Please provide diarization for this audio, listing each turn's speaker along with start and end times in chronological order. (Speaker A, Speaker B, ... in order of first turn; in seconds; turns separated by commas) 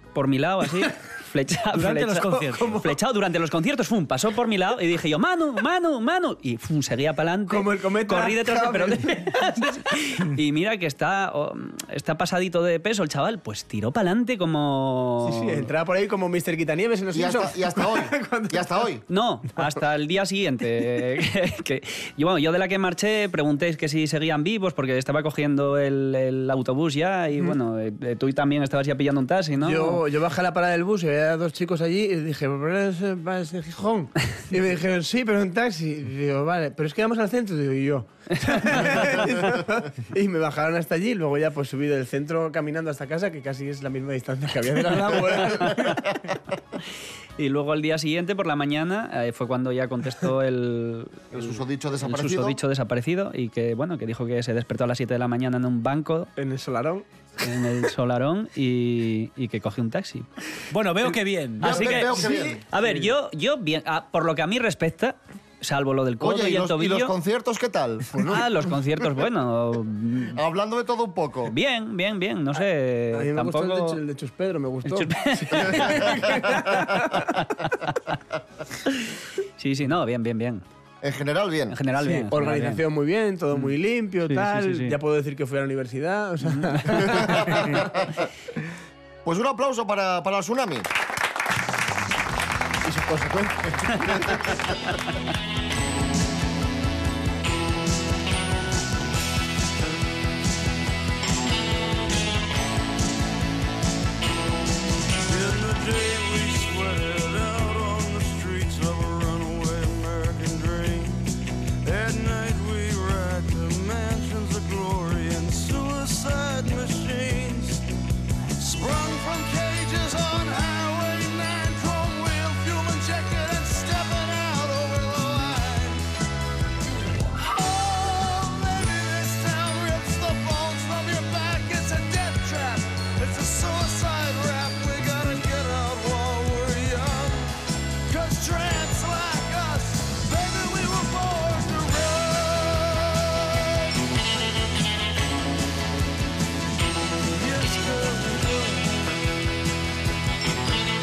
Speaker A: 0.1-15.7, Speaker B: 1.7-2.8, Speaker C: 2.4-2.9, Speaker C: 7.5-9.7, Speaker C: 15.2-18.6, Speaker D: 17.1-19.0, Speaker A: 19.1-30.0, Speaker C: 29.6-46.2, Speaker A: 47.4-56.3, Speaker D: 51.3-52.6, Speaker C: 56.4-57.0, Speaker A: 57.4-60.3, Speaker B: 60.7-62.2, Speaker D: 61.6-62.6, Speaker A: 61.6-67.2, Speaker C: 62.2-63.1, Speaker D: 66.2-68.1, Speaker C: 68.1-68.4, Speaker A: 68.2-70.4, Speaker D: 70.3-71.5, Speaker A: 71.5-74.0, Speaker C: 73.1-77.5, Speaker A: 74.8-77.1, Speaker D: 75.8-77.0, Speaker A: 79.6-80.6, Speaker D: 81.0-81.8, Speaker A: 81.7-82.8, Speaker C: 82.0-87.9, Speaker A: 84.3-85.0, Speaker A: 86.5-87.8, Speaker D: 87.0-88.1, Speaker D: 89.2-90.9, Speaker C: 92.8-94.5, Speaker E: 105.2-111.2, Speaker E: 111.8-117.8, Speaker E: 118.6-126.0, Speaker E: 127.3-137.5, Speaker E: 138.1-143.9, Speaker E: 147.3-149.2